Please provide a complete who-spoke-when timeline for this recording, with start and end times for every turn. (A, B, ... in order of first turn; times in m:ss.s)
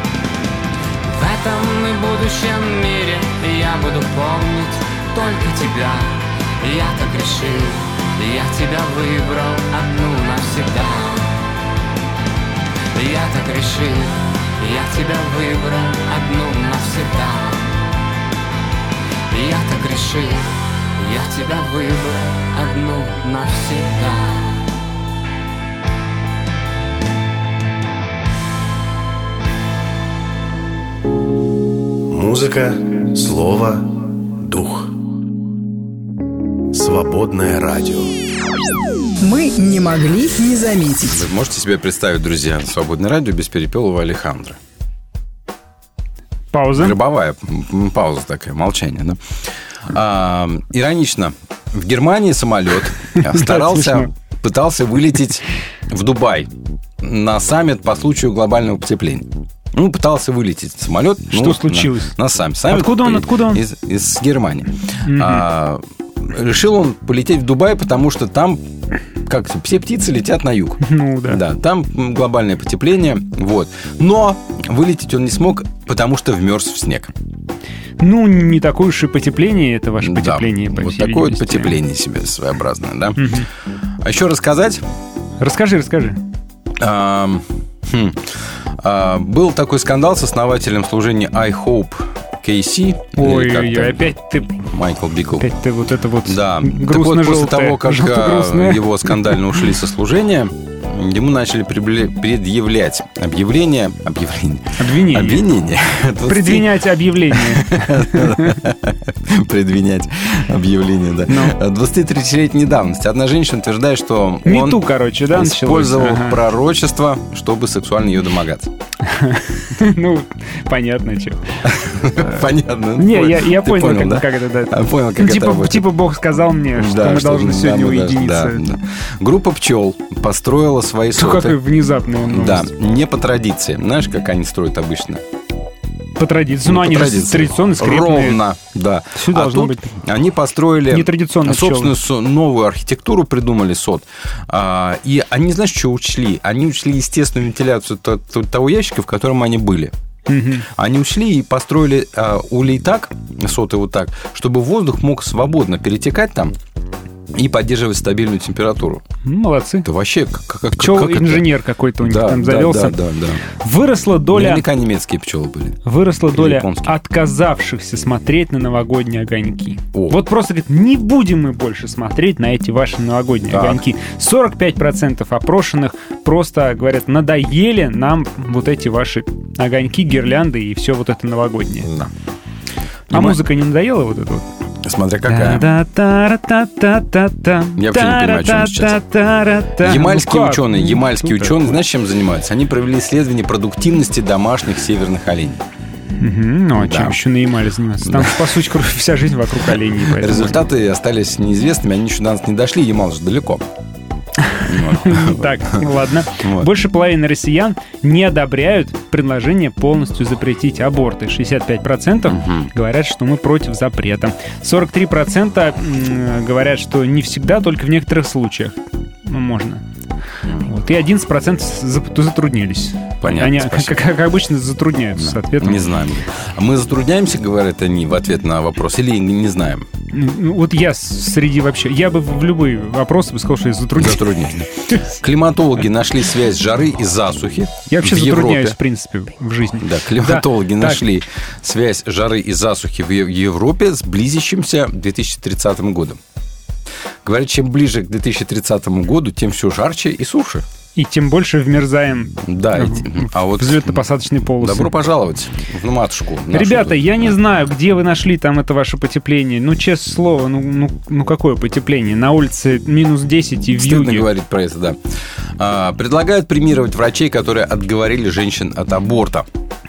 0:01.0-0:11.4 A
0:12.9-0:17.7 A
0:19.3-0:24.7 A
0:32.1-0:33.8 B
0:34.4-0:34.9 B
0:36.7-0:38.1 B
0:39.2-0:41.2 C
0:41.1-0:44.6 D
0:46.5-0:47.0 E
0:46.7-0:49.2 D
0:49.8-1:08.6 D
0:53.1-0:54.1 E
1:01.3-1:02.1 E
1:02.7-1:03.6 E
1:05.1-1:05.4 E
1:09.2-1:17.1 D
1:10.8-1:11.4 E
1:18.0-1:21.8 E
1:20.0-1:23.3 D
1:23.2-1:23.5 E
1:24.0-1:24.8 D
1:25.4-1:26.2 E
1:26.8-1:35.5 D
1:33.2-1:34.6 E
1:35.4-1:39.4 E
1:36.2-1:46.8 D
1:44.8-1:45.4 E
1:46.3-1:48.6 E
1:47.3-1:58.7 D
1:51.3-1:51.5 E
1:54.4-1:56.4 E
1:59.1-2:01.6 E
2:01.7-2:05.9 D
2:02.2-2:02.4 E
2:03.0-2:08.6 E
2:06.8-2:11.6 D
2:11.2-2:12.7 E
2:12.3-2:15.2 D
2:16.2-2:18.4 E
2:16.6-2:29.9 D
2:19.2-2:20.0 E
2:20.9-2:21.9 E
2:30.3-2:30.7 E
2:30.7-2:36.6 D
2:37.3-2:39.0 D
2:39.2-2:39.9 E
2:39.8-2:41.4 D
2:40.8-2:43.0 E
2:42.0-2:43.4 D
2:43.6-2:44.6 E
2:44.3-2:46.9 D
2:45.8-3:01.9 E
2:49.9-2:50.2 D
2:53.5-2:53.8 D
3:01.8-3:02.1 D
3:03.1-3:03.4 D
3:03.1-3:04.5 E
3:04.8-3:05.7 D
3:05.3-3:11.8 E
3:07.8-3:09.0 D
3:09.8-3:15.6 D
3:16.2-3:20.6 E
3:16.8-3:17.2 D
3:18.0-3:18.5 D
3:19.6-3:23.6 D
3:24.5-3:39.8 E
3:24.6-3:25.9 D
3:26.4-3:26.7 D
3:32.3-3:32.7 D
3:40.5-3:45.9 E
3:43.2-3:44.1 D
3:45.2-3:49.9 D
3:50.1-3:54.3 E
3:54.0-3:58.8 D
3:57.9-4:01.0 E
3:59.8-4:06.2 D
4:07.2-4:10.6 D
4:11.0-4:14.9 E
4:12.4-4:17.4 D
4:16.5-4:24.3 E
4:23.8-4:25.0 D
4:25.6-4:29.5 D